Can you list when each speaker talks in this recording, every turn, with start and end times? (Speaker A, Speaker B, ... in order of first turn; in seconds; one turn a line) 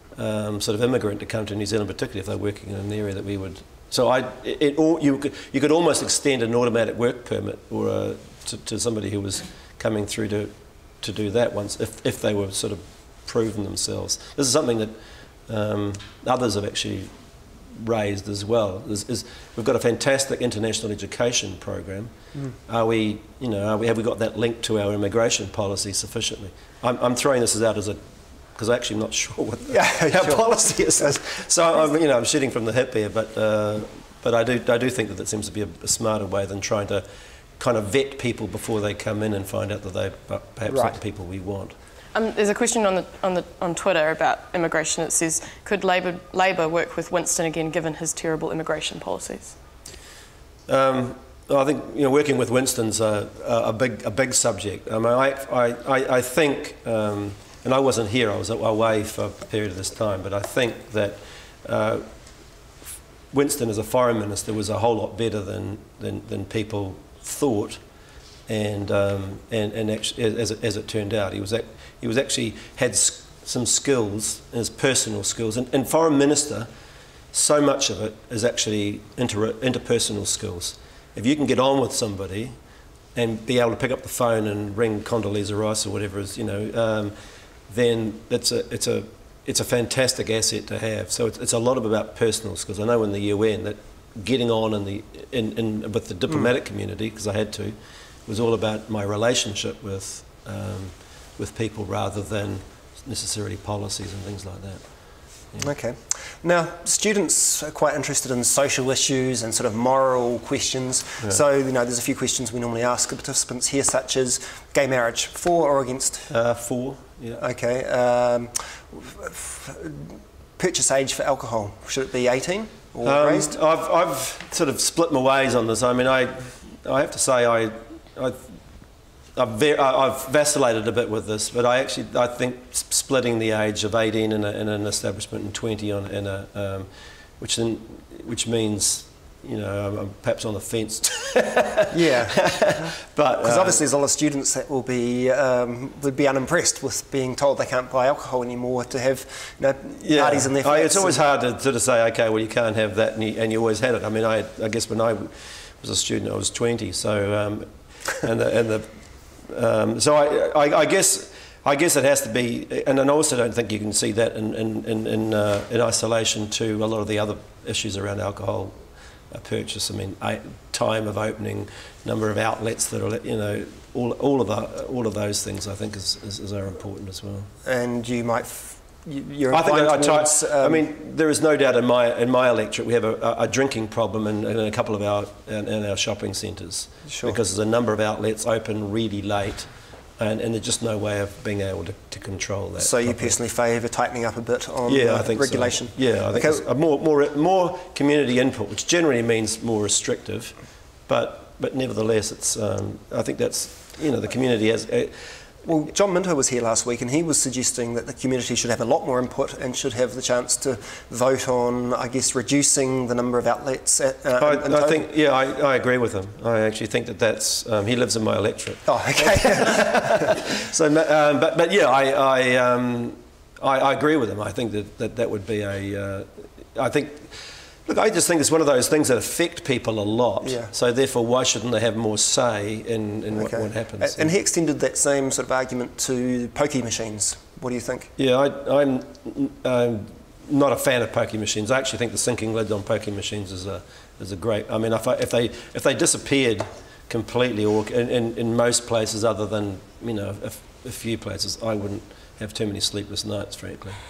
Speaker A: 0.1-14.9
Speaker A: 15.5-17.1
Speaker A: 17.8-22.1
Speaker A: 22.7-28.0
Speaker A: 28.6-37.0
Speaker B: 29.7-31.2
Speaker A: 37.6-41.7
Speaker B: 40.7-41.0
Speaker C: 42.1-49.5
Speaker A: 50.7-62.0
Speaker A: 63.3-67.8
Speaker A: 68.5-76.7
Speaker A: 77.3-82.5
Speaker A: 83.1-87.1
Speaker A: 87.7-97.8
Speaker A: 98.3-104.8
Speaker B: 105.6-116.3
Speaker A: 116.3-117.4
Speaker B: 117.4-123.6
Speaker A: 123.0-128.4
Speaker A: 129.3-136.9
Speaker A: 137.4-143.8
Speaker B: 141.9-142.4
Speaker B: 143.4-151.3
Speaker A: 150.0-158.9
Speaker A: 159.4-168.7
Speaker A: 169.3-177.5
Speaker B: 177.6-180.9
Speaker A: 179.5-193.3
Speaker B: 187.1-187.4
Speaker B: 192.8-196.6
Speaker A: 194.9-200.6
Speaker A: 201.1-205.1
Speaker B: 205.6-215.1
Speaker A: 214.4-227.3
Speaker B: 218.8-220.3
Speaker A: 227.8-234.3
Speaker B: 230.4-230.7
Speaker B: 233.3-238.1
Speaker A: 238.2-254.0